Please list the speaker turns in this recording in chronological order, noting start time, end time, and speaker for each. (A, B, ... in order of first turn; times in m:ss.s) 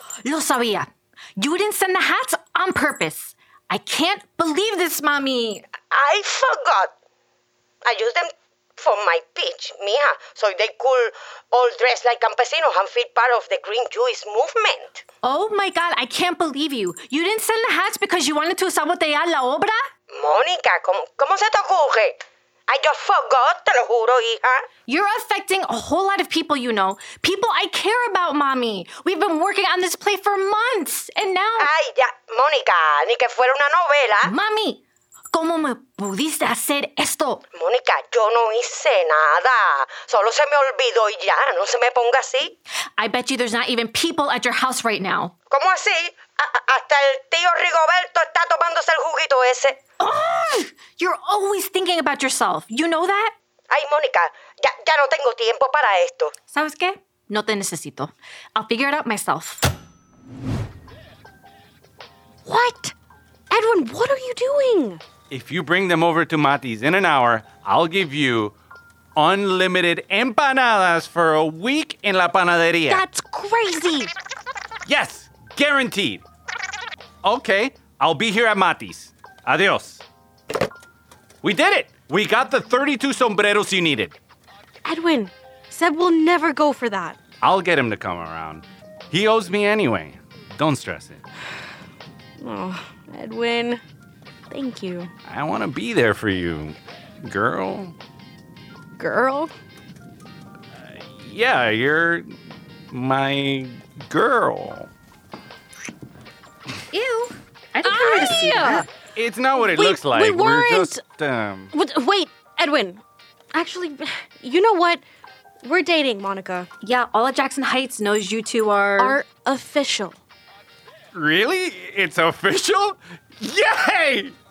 0:00.2-0:05.6 A
0:05.9-0:06.9 B
0:07.8-0:15.0 B
0:15.2-0:19.8 A
0:20.1-0:24.6 B
0:24.9-0:31.7 A
0:31.6-0:34.3 B
0:34.2-0:37.4 A
0:37.5-0:42.5 B
0:43.0-0:45.3 A
0:45.5-0:49.8 B
0:50.0-0:53.3 A
0:53.7-0:56.3 B
0:56.5-0:59.7 A
1:02.5-1:03.0 C
1:03.5-1:05.0 C
1:05.3-1:08.5 D
1:09.2-1:13.0 D
1:12.9-1:14.1 C
1:14.9-1:16.2 D
1:17.2-1:20.0 D
1:21.4-1:24.2 D
1:24.8-1:27.2 C
1:27.4-1:31.2 D
1:32.4-1:33.8 C
1:34.5-1:35.1 C
1:35.3-1:38.0 D
1:39.0-1:39.5 C
1:40.8-1:42.4 D
1:42.9-1:44.9 D
1:46.9-1:48.9 A
1:47.8-1:48.9 C
1:49.2-1:51.7 D
1:49.5-1:51.0 C
1:51.7-1:53.0 C
1:53.5-1:55.0 C
1:55.6-1:56.7 C
1:56.8-1:59.2 A
1:59.0-2:00.2 C
2:01.1-2:04.3 D